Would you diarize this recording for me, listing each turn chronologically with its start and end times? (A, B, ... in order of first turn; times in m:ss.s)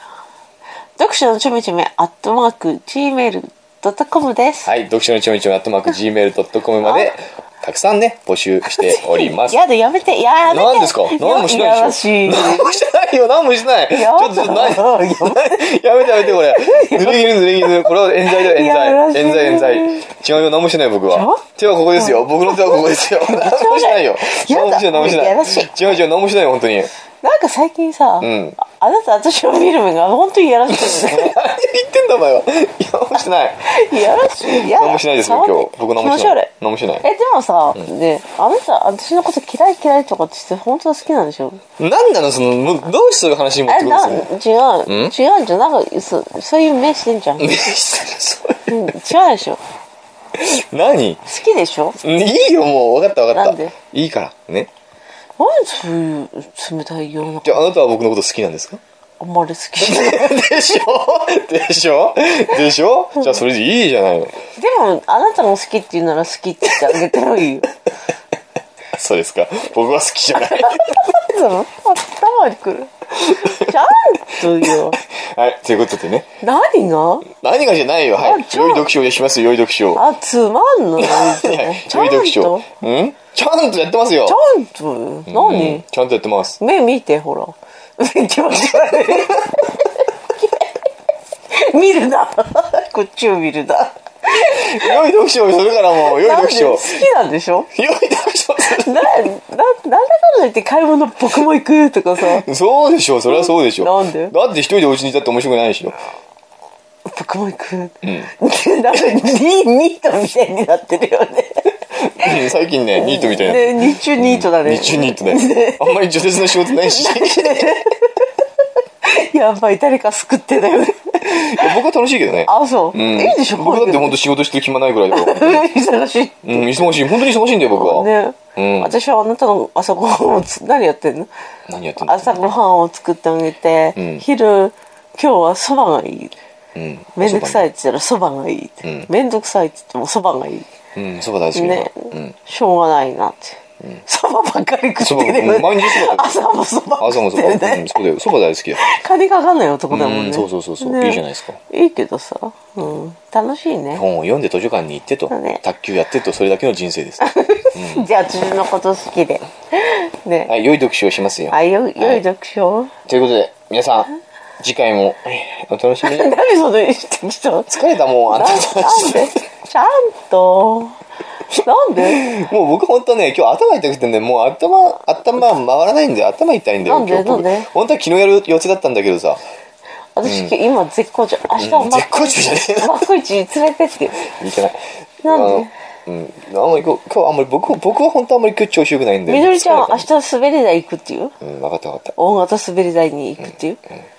0:01.0-0:04.7 A
0:04.7-0:09.6 B
0:06.8-0:07.1 A
0:08.7-0:12.8 A
0:10.5-0:26.9 B
0:13.9-0:20.1 A
0:21.1-0:21.4 A
0:22.0-0:26.0 A
0:27.2-0:31.4 A
0:28.2-0:28.6 B
0:30.7-0:33.7 B
0:33.7-0:36.5 A
0:34.6-0:37.0 B
0:37.0-0:41.6 A
0:41.8-0:44.3 B
0:43.7-0:47.7 A
0:44.9-0:45.2 B
0:47.4-0:48.9 B
0:48.7-0:49.6 A
0:50.3-0:51.2 B
0:51.3-0:52.0 A
0:52.0-0:54.7 B
0:53.3-0:53.8 A
0:55.4-0:57.7 A
0:57.4-0:58.8 B
0:59.2-1:00.7 A
0:59.8-1:04.3 B
1:04.6-1:07.7 A
1:08.9-1:11.0 B
1:10.4-1:15.0 A
1:13.3-1:13.9 B
1:14.6-1:16.3 B
1:16.4-1:17.3 A
1:17.3-1:20.0 B
1:18.2-1:18.9 A
1:19.9-1:22.7 A
1:21.0-1:24.4 B
1:24.3-1:25.8 A
1:25.3-1:26.6 B
1:26.6-1:29.8 A
1:31.5-1:35.0 A
1:34.5-1:37.0 B
1:36.0-1:37.7 A
1:37.7-1:39.0 B
1:38.6-1:42.4 A
1:42.2-1:46.0 B
1:43.3-1:44.3 A
1:47.1-1:58.3 A
1:48.0-1:48.3 B
1:52.2-1:57.8 B
1:59.0-2:01.8 A
2:01.3-2:05.7 B
2:02.4-2:04.2 A
2:05.1-2:07.0 A
2:06.4-2:09.0 B
2:07.7-2:11.3 A
2:11.7-2:12.4 B
2:12.0-2:16.3 A
2:14.0-2:14.2 B
2:16.8-2:17.6 B
2:17.2-2:20.7 A
2:18.8-2:19.1 B
2:21.0-2:22.4 B
2:21.5-2:28.0 A
2:25.0-2:26.3 B
2:27.0-2:28.8 B
2:28.8-2:34.0 A
2:29.9-2:31.6 B
2:33.9-2:38.1 B
2:35.3-2:35.6 A
2:37.2-2:40.5 A
2:40.5-2:42.2 B
2:41.5-2:42.9 A
2:43.1-2:46.3 B
2:46.0-2:51.0 A
2:47.7-2:49.4 B
2:51.6-2:59.4 B
2:51.6-2:52.2 A
2:56.8-2:57.7 A
3:00.2-3:04.3 A
3:00.2-3:00.5 B
3:01.6-3:03.1 B
3:04.2-3:10.1 B
3:05.2-3:05.7 A
3:09.3-3:11.3 A
3:11.4-3:12.1 B
3:12.2-3:13.8 A